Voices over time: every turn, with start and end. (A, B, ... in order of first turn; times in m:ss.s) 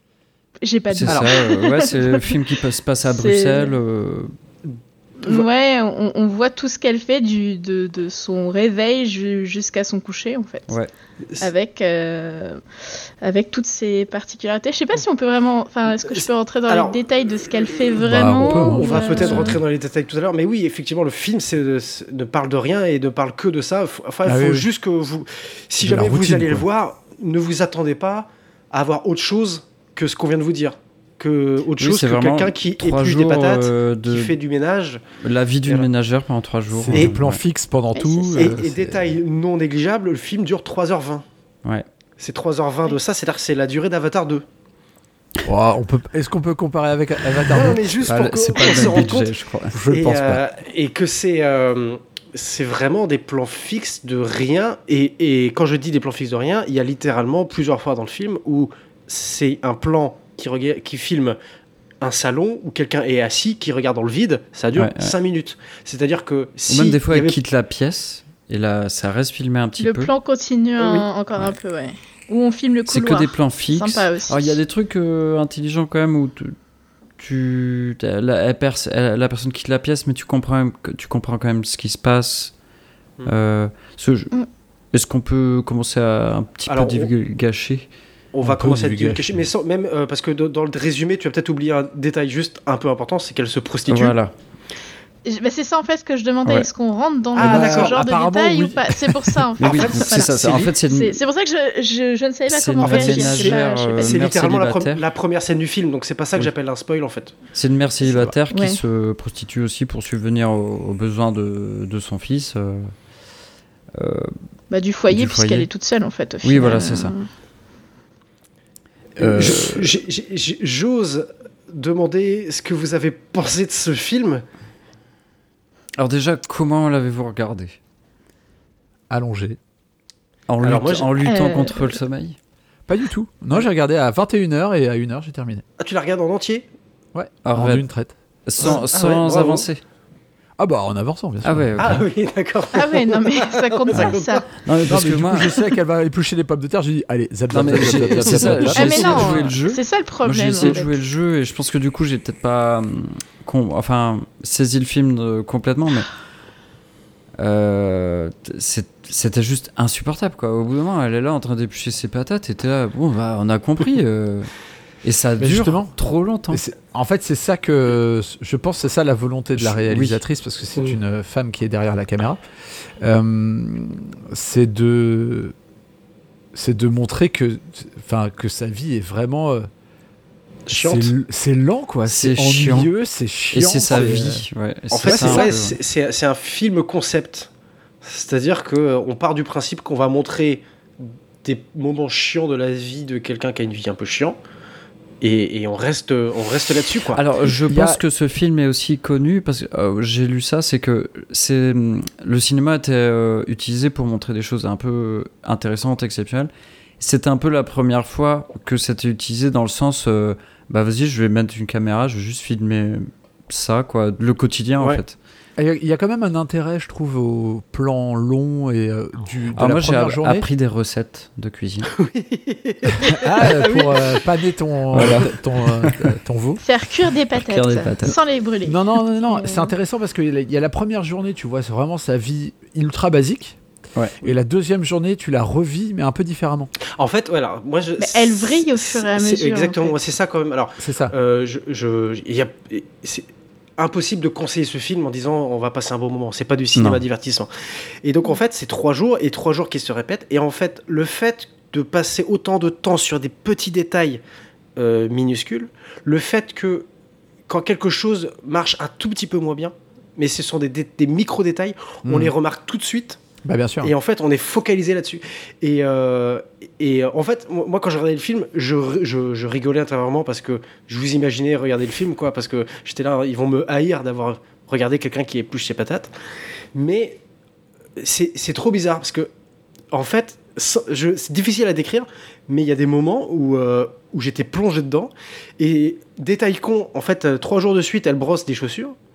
0:00.6-0:02.3 A
0:00.9-0:04.3 B
0:03.0-0:03.7 A
0:05.2-0:05.5 C
0:05.2-0:10.8 A
0:11.4-0:12.6 A
0:13.2-0:19.6 A
0:16.0-0:35.0 C
0:18.0-0:19.6 D
0:24.2-0:24.7 D
0:25.8-0:26.7 D
0:31.8-0:34.4 B
0:35.2-0:37.4 B
0:36.7-0:39.2 D
0:38.0-0:38.6 A
0:38.4-0:41.2 C
0:42.2-0:44.4 C
0:45.4-0:49.1 D
0:47.4-0:49.8 B
0:47.5-0:49.3 C
0:49.7-0:50.4 D
0:49.9-1:01.4 C
1:02.0-1:07.4 C
1:04.8-1:05.2 B
1:06.7-1:10.1 B
1:09.8-1:14.6 A
1:10.8-1:11.1 C
1:12.9-1:16.6 B
1:17.2-1:22.5 B
1:23.2-1:24.3 B
1:24.9-1:27.9 B
1:26.7-1:27.1 C
1:28.3-1:34.2 C
1:28.4-1:29.5 D
1:33.9-1:34.3 B
1:35.3-1:44.3 A
1:37.4-1:38.0 C
1:37.4-1:39.4 D
1:39.6-1:40.7 C
1:39.6-1:41.2 B
1:42.5-1:45.0 B
1:42.8-1:47.4 C
1:47.5-1:52.9 B
1:48.1-1:48.3 D
1:48.5-1:48.8 A
1:54.0-1:54.3 B
1:54.7-1:57.3 A
1:55.1-1:55.7 B
1:56.4-1:57.1 B
1:59.2-2:04.4 C
1:59.2-1:59.8 D
2:06.0-2:07.8 B
2:09.1-2:09.6 D
2:10.5-2:12.4 B
2:10.6-2:11.2 C
2:11.2-2:11.9 A
2:12.9-2:15.6 D
2:15.8-2:16.7 C
2:17.1-2:18.1 D
2:17.4-2:17.9 B
2:18.5-2:19.8 B
2:18.6-2:19.7 C
2:20.6-2:22.0 D
2:21.4-2:22.0 B
2:21.8-2:24.5 C
2:22.7-2:24.5 A
2:23.9-2:25.6 B
2:24.9-2:29.5 D
2:27.5-2:36.1 B
2:27.6-2:28.9 C
2:28.7-2:31.0 A
2:37.4-2:44.5 B
2:45.0-2:46.6 B
2:45.4-2:46.0 D
2:46.5-2:52.4 D
2:49.6-2:50.2 B
2:53.0-2:55.5 D
2:56.5-2:59.7 D
3:00.7-3:01.1 C
3:00.7-3:04.5 D
3:02.1-3:02.9 B
3:03.5-3:05.8 B
3:03.9-3:04.2 C
3:04.9-3:07.5 C
3:05.0-3:05.6 D
3:08.0-3:14.4 C
3:15.2-3:17.2 C
3:17.1-3:35.2 B
3:17.7-3:18.0 D
3:35.6-3:40.5 D
3:39.6-3:41.9 B
3:41.9-3:44.2 C
3:43.0-3:46.6 D
3:44.9-3:46.1 B
3:46.6-3:49.7 A
3:47.3-3:48.2 B
3:48.6-3:53.6 D
3:54.2-3:56.7 D
3:56.9-4:07.5 C
3:58.0-4:00.0 A
4:00.8-4:01.1 D
4:06.8-4:07.0 B
4:08.0-4:14.2 C
4:14.8-4:16.9 C
4:17.5-4:23.2 C
4:22.0-4:22.3 D
4:23.4-4:23.9 D
4:23.8-4:36.1 C
4:36.8-4:37.2 C
4:38.0-4:39.3 C
4:39.9-4:49.0 C